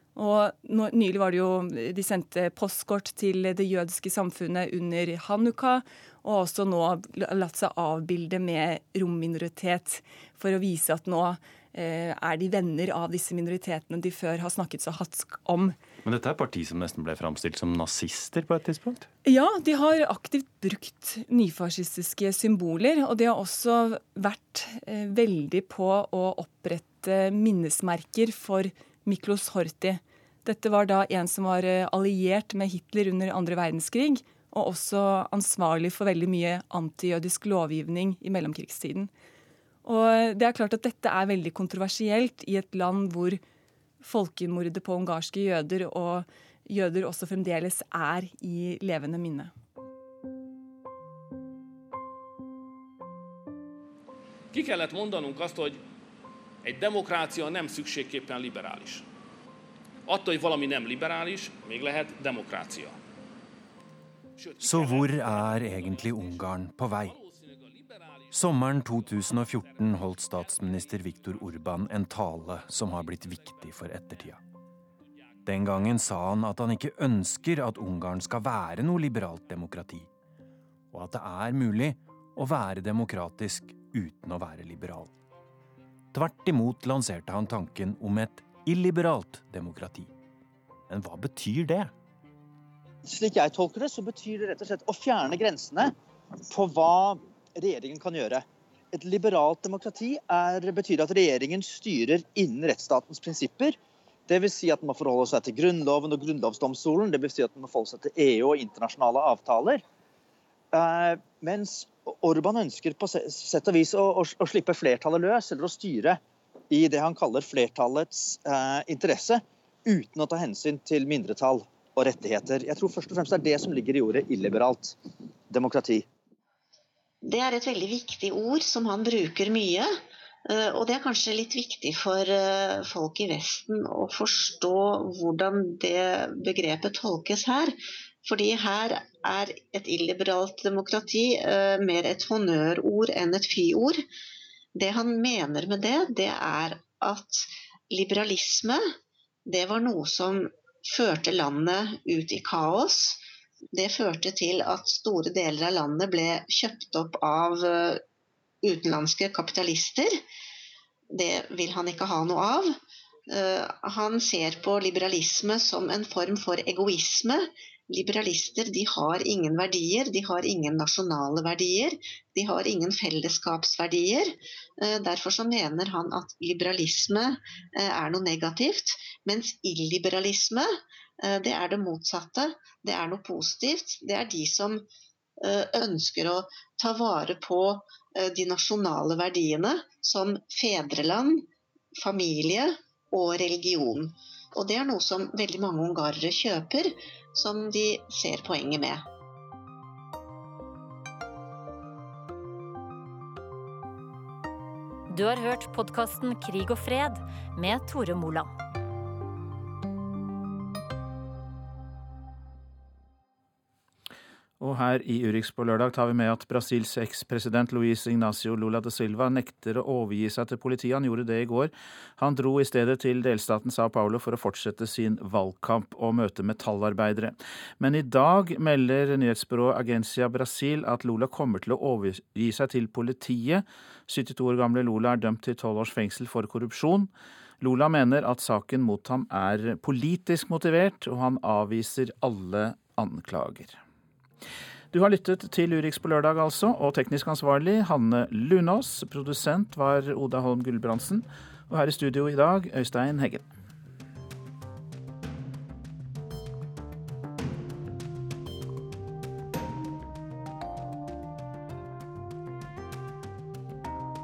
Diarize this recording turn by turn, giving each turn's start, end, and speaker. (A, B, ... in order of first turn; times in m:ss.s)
0:00.2-0:15.8 A
0:16.0-0:19.1 B
0:19.2-0:39.1 A
0:39.8-0:43.4 A
0:44.0-0:49.5 A
0:54.5-0:55.8 C
0:56.6-0:59.0 C
1:00.1-1:03.0 C
1:04.4-1:05.5 C
1:04.6-1:07.2 B
1:07.5-1:08.1 C
1:08.3-1:14.4 B
1:15.5-1:20.1 B
1:20.9-1:25.2 B
1:26.1-1:30.1 B
1:30.9-1:31.9 B
1:33.0-1:35.9 D
1:36.5-1:43.8 D
1:44.3-1:49.8 D
1:50.7-1:56.2 D
1:56.7-2:05.0 D
2:05.5-2:06.1 D
2:07.2-2:10.0 E
2:10.5-2:24.0 E
2:24.8-2:28.9 E
2:29.5-2:33.2 E
2:33.7-2:38.0 E
2:38.6-2:40.2 E
2:41.1-2:42.8 E
2:43.3-3:04.8 E
3:05.4-3:11.4 E
3:12.0-3:19.0 E
3:25.1-3:28.5 F
3:34.6-4:03.8 G
4:04.9-4:13.4 G